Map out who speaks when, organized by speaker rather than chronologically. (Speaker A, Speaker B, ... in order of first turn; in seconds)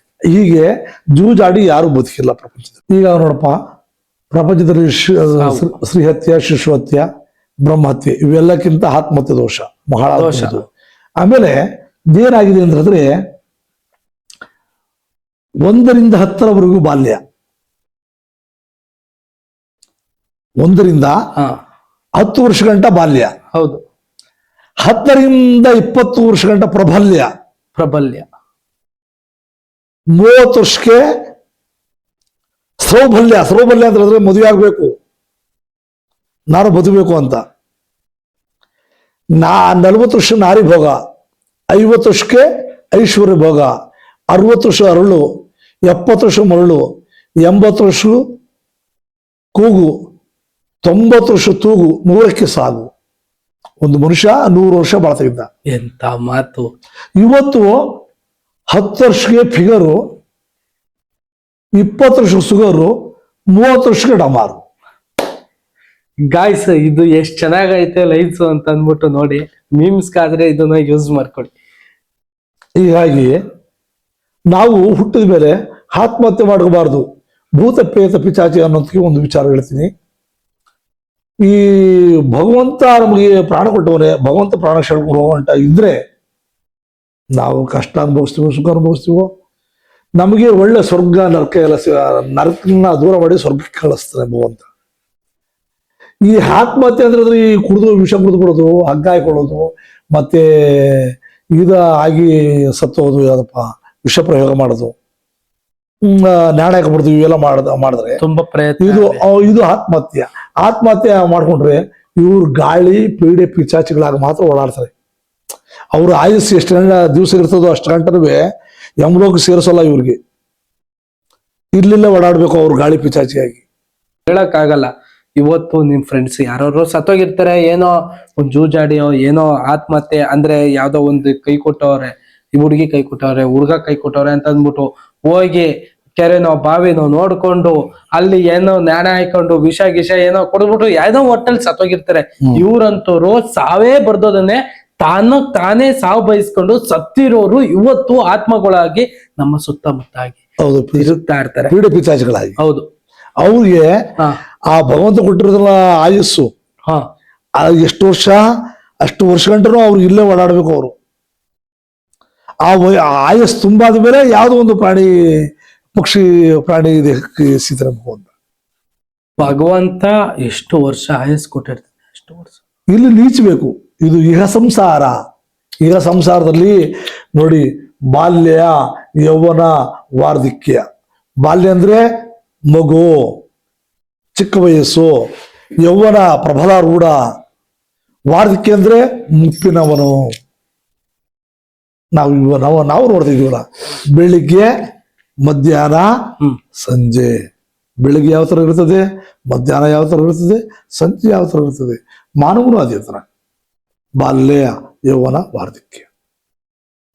Speaker A: 0.3-3.6, 4.3-7.0, 7.6-10.7, 11.2-11.6, 12.1-13.2, 15.6-17.2, 20.6-21.1, 22.2-23.3, 24.8-27.3, 30.2-31.0, 32.8-34.9, 36.5-37.4, 39.4-41.0, 41.7-43.7, 44.3-45.2, 45.9-46.8, 47.4-48.2, 49.5-49.9, 50.8-52.9, 53.8-55.5, 57.2-57.7, 58.7-60.0, 61.8-62.9, 63.5-64.6, 72.8-73.4, 74.5-77.0, 77.6-79.9, 81.4-86.0, 87.3-89.3, 90.2-94.7, 96.2-104.9, 106.0-108.2, 108.8-114.9, 115.9-118.4, 119.0-120.2, 121.8-123.6, 150.6-151.1, 151.7-152.6, 153.4-153.9, 154.7-156.5, 157.6-158.4, 159.0-160.9, 162.7-165.1, 165.9-168.3, 172.9-175.1, 175.8-176.8, 177.3-180.8, 181.4-182.0, 182.7-183.4, 184.4-185.1, 185.8-187.2, 188.3-190.2, 192.2-194.7, 195.4-196.1, 196.8-197.4, 198.0-203.2, 204.2-206.1
Speaker B: 5.4-5.7, 10.2-10.6, 23.5-23.8, 27.8-28.2, 55.7-56.7, 66.2-71.5, 108.2-109.4, 124.3-150.4, 151.0-151.7, 152.6-152.9, 169.4-172.6